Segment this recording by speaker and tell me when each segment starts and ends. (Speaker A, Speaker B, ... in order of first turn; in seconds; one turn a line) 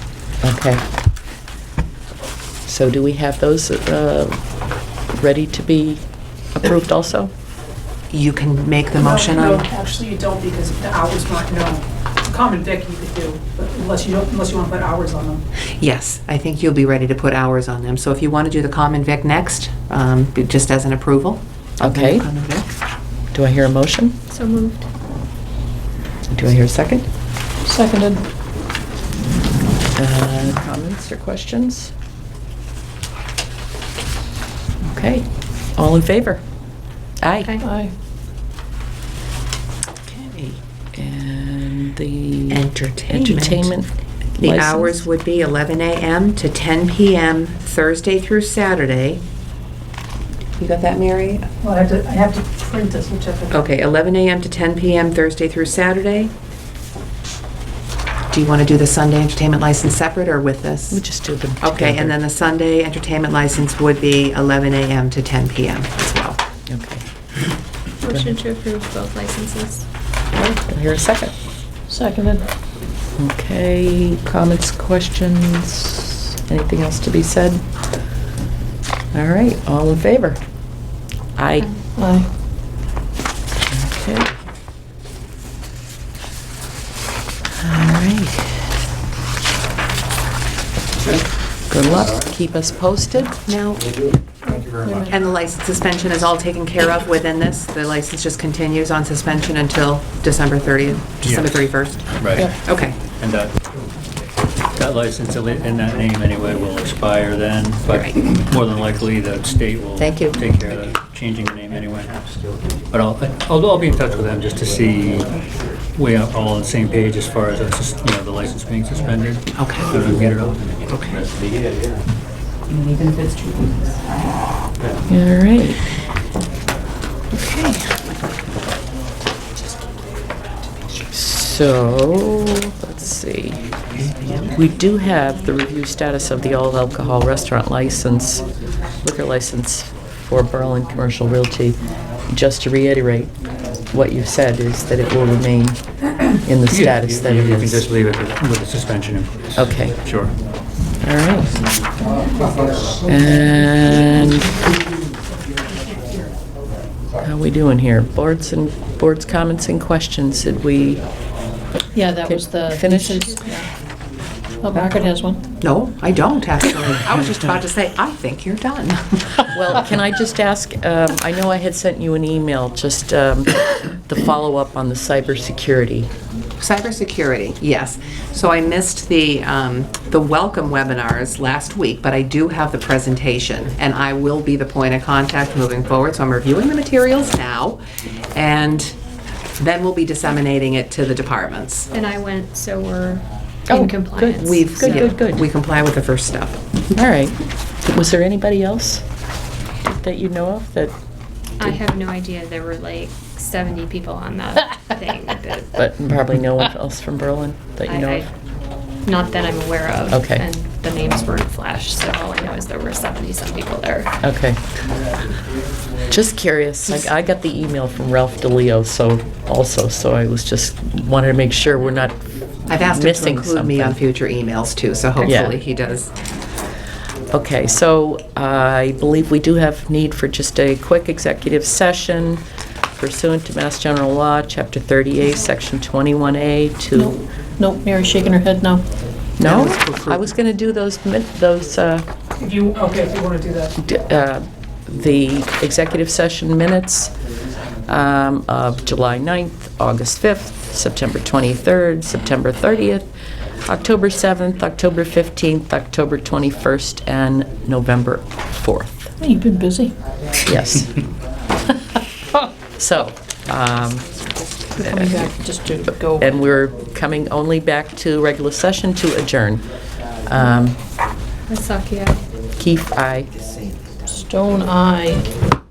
Speaker A: 0.4-0.8
Speaker A: 2.6-4.4
Speaker A: 5.1-6.0
Speaker A: 6.5-7.3
Speaker B: 8.1-9.6
Speaker C: 9.0-15.4
Speaker B: 15.7-22.6
Speaker A: 21.8-22.2
Speaker A: 23.3-24.2
Speaker D: 24.3-24.9
Speaker A: 26.3-27.1
Speaker E: 27.6-28.2
Speaker A: 29.9-31.9
Speaker A: 34.9-36.4
Speaker A: 37.2-37.6
Speaker E: 37.6-37.9
Speaker B: 40.1-40.6
Speaker A: 40.9-45.0
Speaker B: 42.5-43.7
Speaker B: 44.4-49.2
Speaker B: 50.6-51.5
Speaker C: 51.6-53.7
Speaker B: 53.5-56.3
Speaker B: 58.3-61.0
Speaker A: 60.9-62.1
Speaker B: 61.6-66.4
Speaker A: 66.7-67.0
Speaker D: 68.0-69.8
Speaker A: 70.3-71.3
Speaker E: 71.9-72.5
Speaker A: 73.2-77.6
Speaker A: 79.1-80.4
Speaker A: 81.4-81.7
Speaker E: 82.0-82.3
Speaker A: 83.7-84.3
Speaker A: 87.6-88.6
Speaker A: 91.7-93.4
Speaker B: 93.5-93.9
Speaker E: 94.4-95.1
Speaker B: 95.1-103.0
Speaker F: 101.2-103.8
Speaker F: 104.7-112.2
Speaker B: 107.9-108.1
Speaker B: 110.0-110.4
Speaker F: 112.9-115.3
Speaker F: 115.9-120.7
Speaker B: 119.6-119.9
Speaker B: 120.9-121.2
Speaker A: 125.1-125.8
Speaker B: 127.3-128.1
Speaker A: 131.1-133.6
Speaker B: 134.0-134.5
Speaker A: 134.5-138.4
Speaker A: 139.0-143.3
Speaker A: 143.9-145.8
Speaker A: 146.3-147.8
Speaker F: 146.7-150.3
Speaker A: 149.6-149.9
Speaker A: 151.0-151.7
Speaker C: 152.4-153.0
Speaker A: 153.0-154.5
Speaker C: 155.7-156.3
Speaker A: 157.2-161.0
Speaker E: 161.9-163.7
Speaker A: 162.2-163.5
Speaker E: 164.6-165.4
Speaker B: 165.6-169.5
Speaker A: 169.5-176.1
Speaker B: 176.6-187.8
Speaker B: 188.3-188.9
Speaker B: 189.6-191.9
Speaker D: 191.9-195.1
Speaker A: 193.7-195.5
Speaker B: 194.4-196.6
Speaker A: 196.9-199.0
Speaker A: 199.8-200.9
Speaker D: 201.6-205.8
Speaker A: 205.8-208.3
Speaker D: 207.8-208.3
Speaker D: 209.0-214.1
Speaker A: 210.1-210.4
Speaker A: 214.2-214.6
Speaker A: 216.1-222.2
Speaker A: 222.7-224.0
Speaker B: 222.7-226.1
Speaker A: 225.2-225.6
Speaker A: 227.3-237.2
Speaker E: 236.9-238.8
Speaker A: 239.4-242.1
Speaker B: 239.4-240.3
Speaker C: 242.4-243.7
Speaker A: 243.8-247.1
Speaker A: 247.8-253.1
Speaker A: 253.7-258.9
Speaker E: 259.2-259.9
Speaker A: 260.4-261.0
Speaker A: 262.8-264.2
Speaker E: 264.7-266.3
Speaker A: 264.8-265.3
Speaker A: 266.1-269.6
Speaker A: 270.2-270.8
Speaker D: 271.5-272.2
Speaker A: 272.6-273.3
Speaker E: 274.1-275.2